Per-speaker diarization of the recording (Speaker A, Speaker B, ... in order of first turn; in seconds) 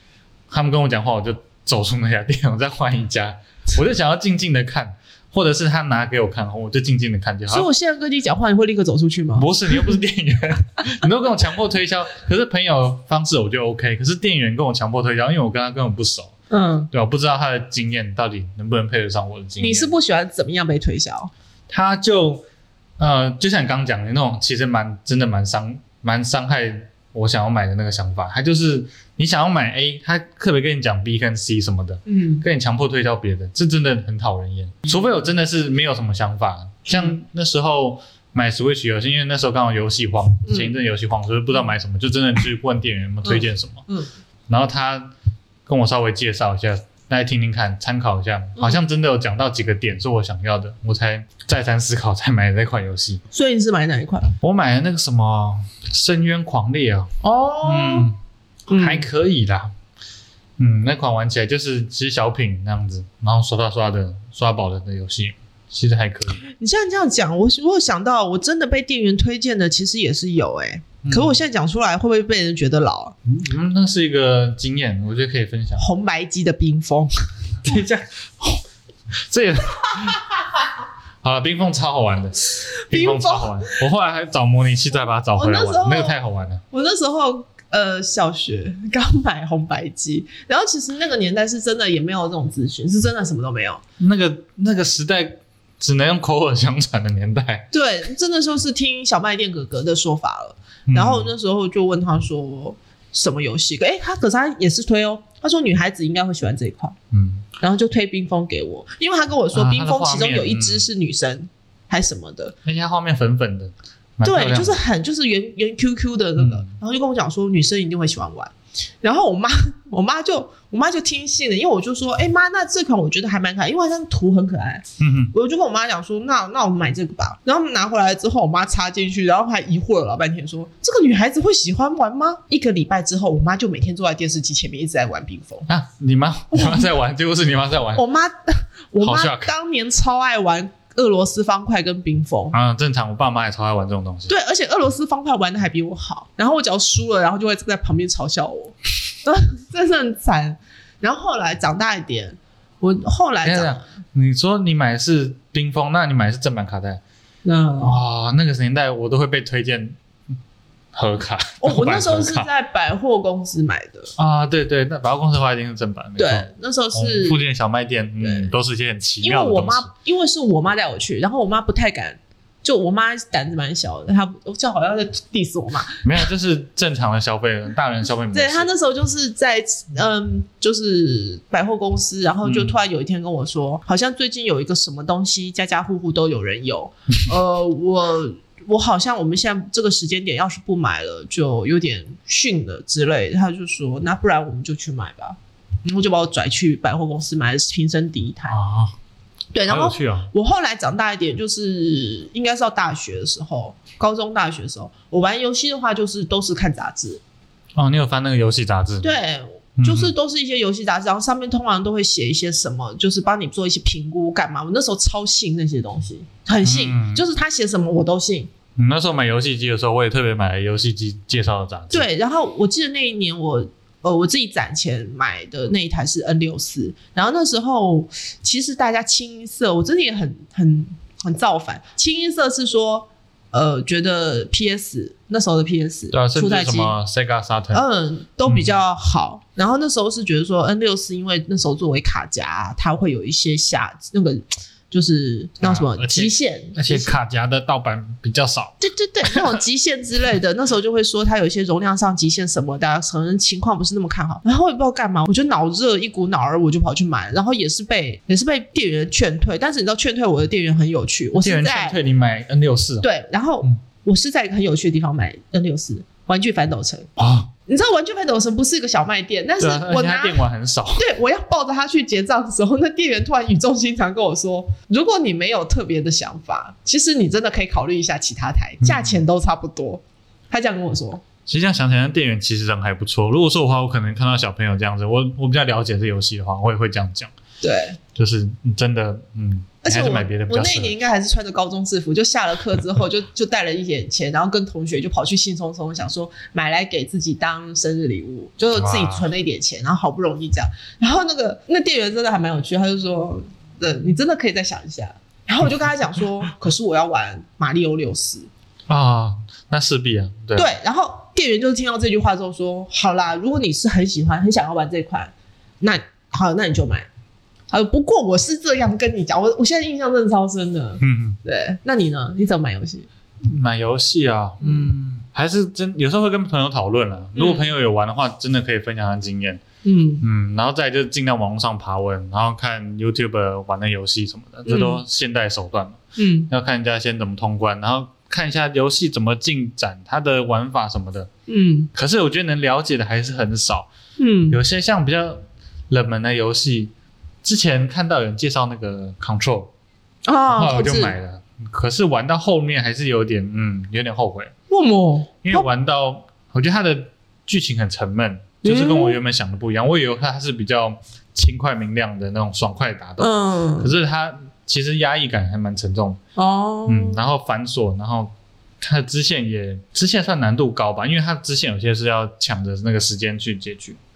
Speaker A: 0.5-7.7, 9.3-16.3, 16.9-19.9, 21.7-22.4, 23.0-43.8, 44.5-45.1, 45.7-53.2, 54.4-57.1, 57.6-58.1, 58.8-59.7, 60.6-66.4, 71.0-71.3, 73.2-75.8, 77.6-80.6, 81.2-86.6, 94.0-97.7, 100.9-101.3, 107.1-107.5, 109.5-110.8, 112.6-114.8, 116.4-116.7, 125.0-125.3, 135.7-138.0, 139.0-139.5, 142.5-144.3, 153.4-157.0, 157.8-160.0, 160.9-162.5, 164.2-169.9, 176.0-178.7, 182.4-182.8, 198.5-198.9, 199.7-200.3, 207.7-209.1, 209.8-210.1, 216.6-217.2, 218.8-222.1, 236.1-237.8, 238.4-238.7, 245.6-248.8, 261.3-263.1, 267.2-267.5, 269.6-271.1, 278.8-279.2, 281.5-287.3, 288.1-290.9, 298.7-299.2, 308.9-310.7, 321.0-321.4, 323.4-329.6, 330.2-341.3, 341.9-343.9, 344.5-346.9, 347.4-349.7, 350.5-354.5, 355.4-366.2, 366.9-374.0
Speaker B: 7.5-9.9, 16.5-16.9, 19.6-21.3, 32.1-32.4, 40.4-40.8, 43.2-44.1, 53.3-54.4, 57.2-58.1, 58.7-59.1, 66.5-73.1, 75.8-77.1, 82.6-83.8, 85.3-86.2, 86.7-93.8, 97.7-107.0, 107.6-112.5, 114.2-135.7, 136.5-136.9, 137.9-142.5, 144.3-153.8, 157.4-158.0, 161.6-164.1, 166.2-167.4, 168.2-168.5, 169.2-176.0, 178.3-198.6, 199.5-207.2, 209.0-218.5, 221.9-237.0, 237.7-247.1, 248.8-262.0, 263.0-270.4, 270.9-281.2, 287.6-288.0, 289.8-308.5, 310.6-317.1, 317.7-323.1, 324.6-324.9, 327.3-327.7, 329.8-330.2, 334.7-335.0, 336.2-336.5, 341.5-341.9, 344.2-344.6, 350.2-351.1, 354.7-355.7, 358.6-359.2, 363.2-363.9, 366.4-367.2